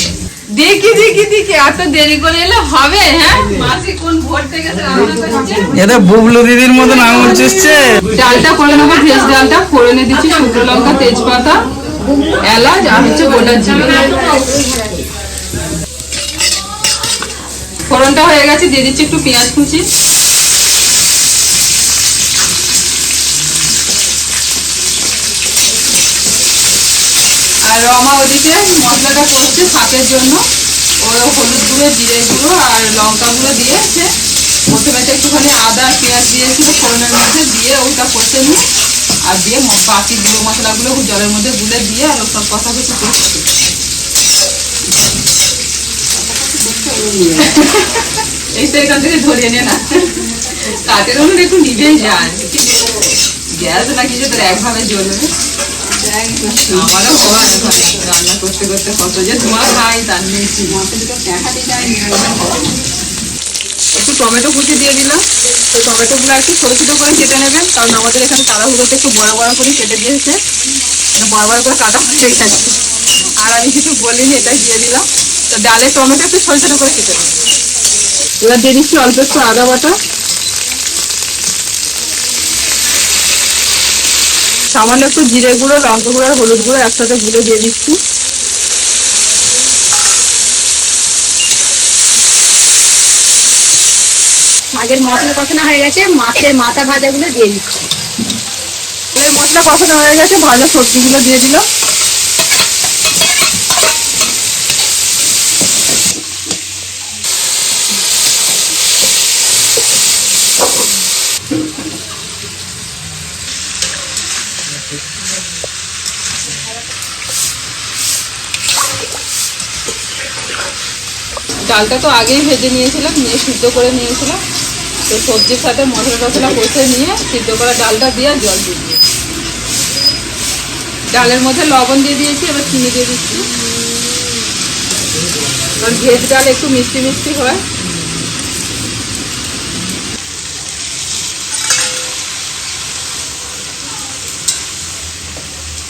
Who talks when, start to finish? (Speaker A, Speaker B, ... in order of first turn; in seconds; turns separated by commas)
Speaker A: 0.5-5.7, Speaker B: 5.8-7.8, Speaker A: 8.1-11.6, Speaker A: 12.4-14.3, Speaker C: 13.8-15.0, Speaker A: 17.9-19.8, Speaker A: 27.7-30.4, Speaker A: 31.0-34.1, Speaker A: 34.7-38.6, Speaker A: 39.2-43.5, Speaker C: 46.3-47.5, Speaker A: 47.4-52.5, Speaker A: 53.5-55.3, Speaker A: 55.9-60.8, Speaker C: 60.7-62.7, Speaker A: 63.9-70.4, Speaker A: 71.2-72.8, Speaker A: 73.4-77.4, Speaker A: 78.4-79.9, Speaker A: 84.7-88.0, Speaker C: 94.7-97.7, Speaker A: 99.1-101.6, Speaker A: 121.7-124.4, Speaker A: 125.1-129.0, Speaker A: 131.1-133.4, Speaker A: 135.8-137.6